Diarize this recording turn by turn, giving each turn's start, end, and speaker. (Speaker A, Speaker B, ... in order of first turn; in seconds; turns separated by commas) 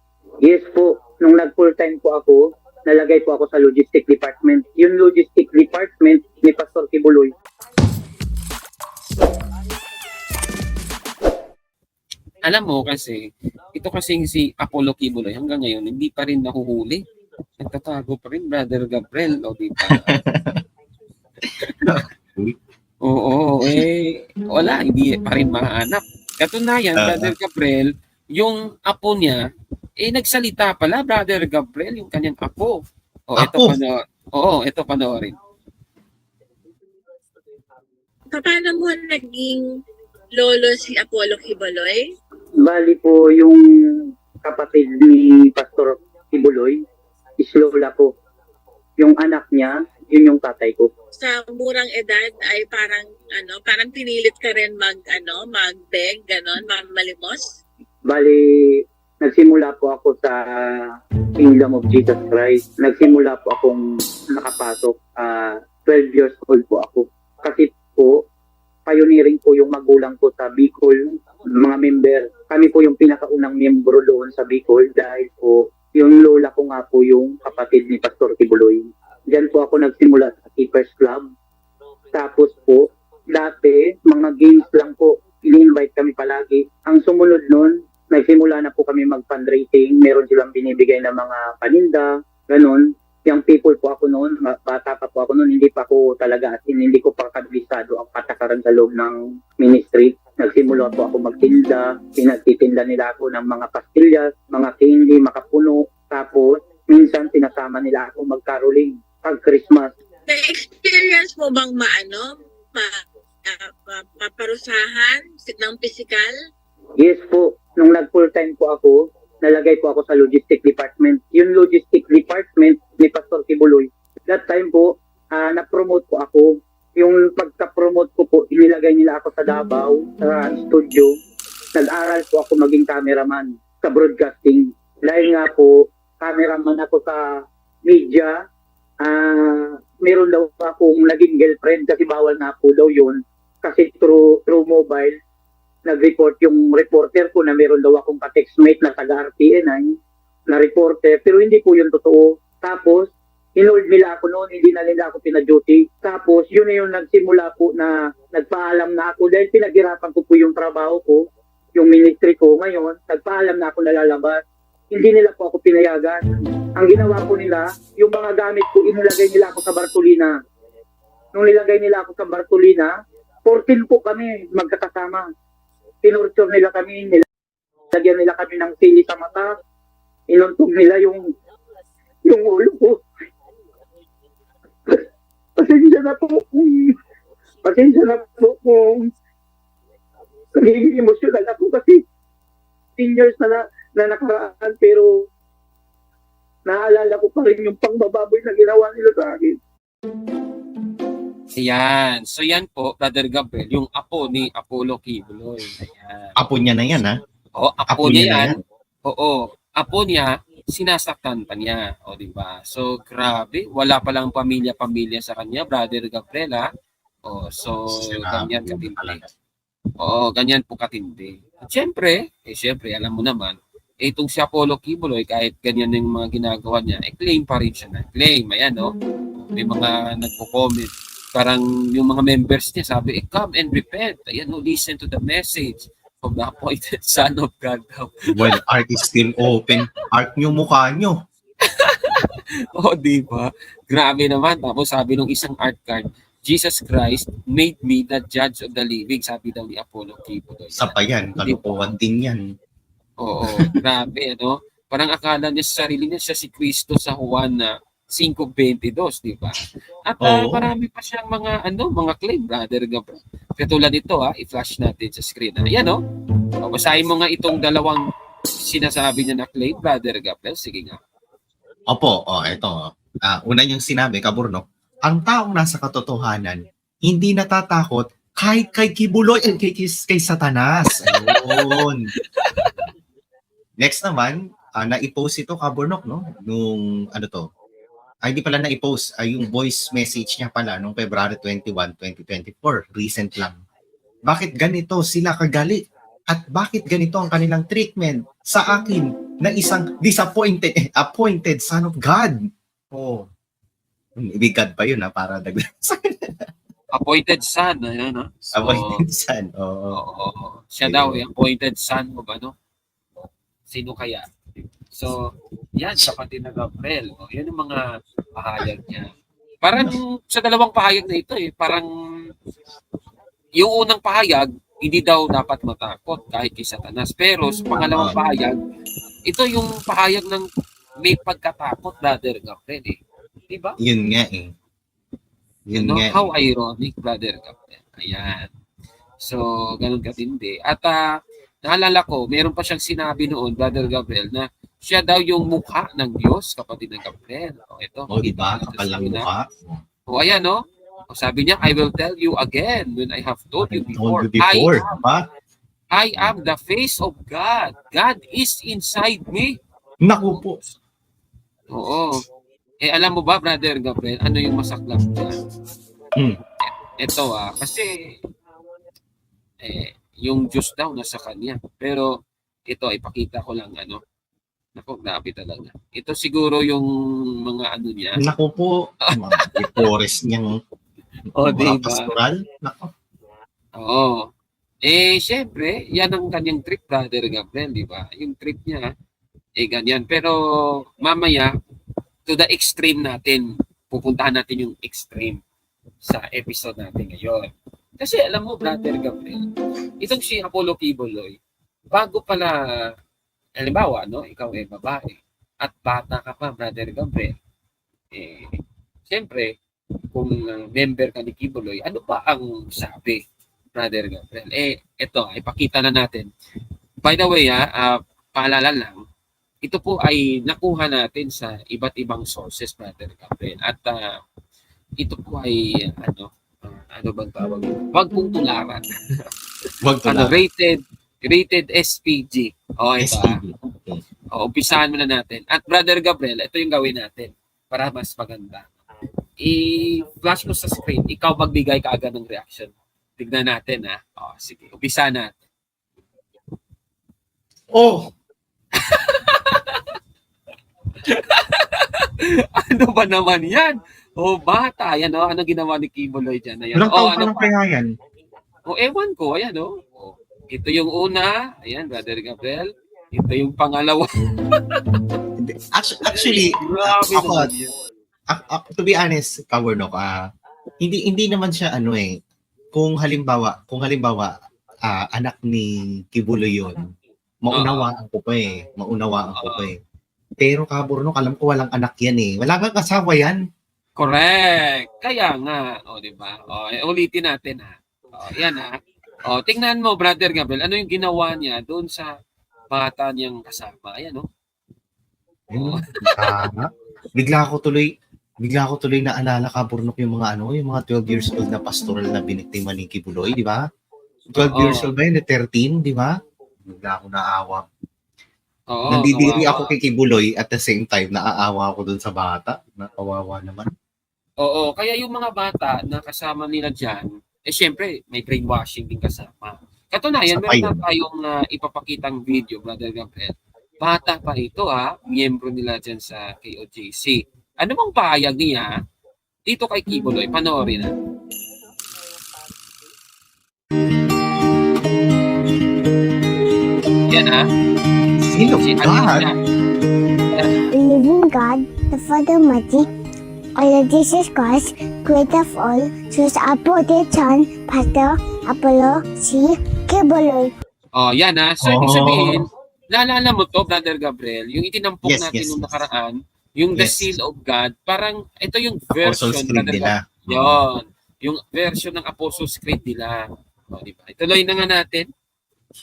Speaker A: 0.4-7.3, Speaker B: 12.5-13.2, Speaker B: 13.7-17.0, Speaker B: 17.6-20.1, Speaker C: 19.9-20.6, Speaker C: 21.4-22.6, Speaker B: 23.1-29.4, Speaker C: 27.0-27.3, Speaker B: 30.0-32.8, Speaker B: 33.3-35.3, Speaker C: 33.4-33.8, Speaker D: 38.3-39.6, Speaker D: 40.4-42.1, Speaker A: 42.6-43.6, Speaker A: 44.4-46.8, Speaker A: 47.4-48.1, Speaker A: 49.0-50.9, Speaker D: 51.1-57.6, Speaker A: 58.1-63.8, Speaker A: 64.3-68.2, Speaker A: 68.8-81.3, Speaker A: 82.1-109.9, Speaker D: 110.3-116.3, Speaker A: 117.0-131.1, Speaker A: 131.7-137.3, Speaker A: 137.8-138.3, Speaker A: 139.0-145.2, Speaker A: 145.8-149.9, Speaker A: 150.5-161.2, Speaker A: 161.8-164.4, Speaker A: 164.9-166.2, Speaker A: 166.8-170.3, Speaker A: 171.3-172.9, Speaker A: 173.4-175.2, Speaker A: 176.0-177.2, Speaker A: 177.9-179.5, Speaker A: 180.3-181.2, Speaker A: 182.2-183.0, Speaker A: 185.6-186.9, Speaker A: 187.6-189.1, Speaker A: 190.6-192.0, Speaker A: 193.0-195.2, Speaker A: 196.7-199.6, Speaker B: 201.6-206.3, Speaker C: 206.4-207.1, Speaker B: 207.6-208.6, Speaker C: 207.9-208.6, Speaker B: 209.1-216.7, Speaker B: 217.2-219.2, Speaker C: 217.9-219.3, Speaker B: 220.0-238.6, Speaker C: 238.3-241.2, Speaker B: 241.7-251.9, Speaker C: 250.8-252.4, Speaker B: 253.2-266.0, Speaker C: 260.2-260.7, Speaker B: 266.6-268.0, Speaker B: 268.7-271.0, Speaker C: 271.9-282.1, Speaker B: 281.0-282.9, Speaker C: 283.8-287.4, Speaker C: 288.2-293.6, Speaker C: 294.3-302.4, Speaker C: 302.9-303.3, Speaker C: 304.2-306.5, Speaker B: 306.9-309.0, Speaker C: 308.5-310.0, Speaker B: 309.9-312.5, Speaker C: 310.8-311.2, Speaker B: 313.7-314.3, Speaker B: 315.8-317.8, Speaker B: 318.4-319.1, Speaker B: 319.6-321.9, Speaker B: 323.6-328.6, Speaker C: 327.7-328.2, Speaker B: 329.3-330.4, Speaker B: 331.0-333.0, Speaker B: 333.5-333.8, Speaker C: 333.8-334.5, Speaker C: 335.7-336.3, Speaker B: 335.8-338.5, Speaker B: 339.2-341.0, Speaker B: 341.6-349.3, Speaker C: 348.1-349.8, Speaker B: 350.1-355.0, Speaker C: 353.6-355.2, Speaker B: 355.9-359.5, Speaker C: 360.1-360.6, Speaker B: 361.7-362.2, Speaker B: 362.8-365.4, Speaker B: 366.6-367.9, Speaker B: 369.6-372.1, Speaker B: 372.7-374.0, Speaker B: 374.8-376.9, Speaker B: 377.5-378.2, Speaker C: 378.2-380.6, Speaker B: 379.4-379.9, Speaker B: 381.4-382.1, Speaker C: 381.4-382.9, Speaker B: 383.8-384.3, Speaker B: 384.8-388.8, Speaker B: 389.6-391.5, Speaker B: 392.3-395.4, Speaker B: 396.0-399.5, Speaker B: 400.0-401.4, Speaker B: 401.9-402.5, Speaker B: 403.6-407.3, Speaker B: 408.1-408.6, Speaker B: 409.1-409.5, Speaker B: 410.1-413.2, Speaker B: 413.8-416.3, Speaker B: 417.0-419.0, Speaker B: 419.6-424.0, Speaker B: 425.0-429.0, Speaker C: 429.8-430.4, Speaker B: 430.1-433.4, Speaker C: 433.0-434.0, Speaker B: 434.3-438.7, Speaker B: 439.4-445.4, Speaker C: 447.7-448.1, Speaker B: 448.8-449.8, Speaker B: 451.0-457.5, Speaker C: 456.7-457.9, Speaker B: 458.7-464.1, Speaker C: 465.4-467.5, Speaker B: 466.1-467.7, Speaker C: 468.3-470.1, Speaker C: 470.8-472.1, Speaker C: 472.7-474.3, Speaker C: 474.9-476.9, Speaker C: 477.4-479.7, Speaker B: 477.5-477.9, Speaker B: 479.3-479.6, Speaker C: 480.4-483.4, Speaker B: 484.0-488.7, Speaker B: 489.2-492.1, Speaker B: 492.7-494.2, Speaker C: 495.5-497.9, Speaker B: 495.6-496.4, Speaker C: 498.4-503.6, Speaker C: 504.3-506.1, Speaker B: 504.4-504.9, Speaker C: 506.6-507.6, Speaker B: 508.7-509.7, Speaker C: 508.9-513.7, Speaker B: 514.4-528.7, Speaker C: 520.3-520.8, Speaker B: 529.5-530.9, Speaker B: 537.1-537.5, Speaker C: 538.2-539.3, Speaker B: 538.6-539.3, Speaker B: 540.3-540.6, Speaker E: 540.7-542.9, Speaker E: 543.6-550.5, Speaker B: 551.0-565.1, Speaker C: 551.6-552.5, Speaker C: 555.0-555.9, Speaker C: 556.7-557.1, Speaker C: 558.9-560.6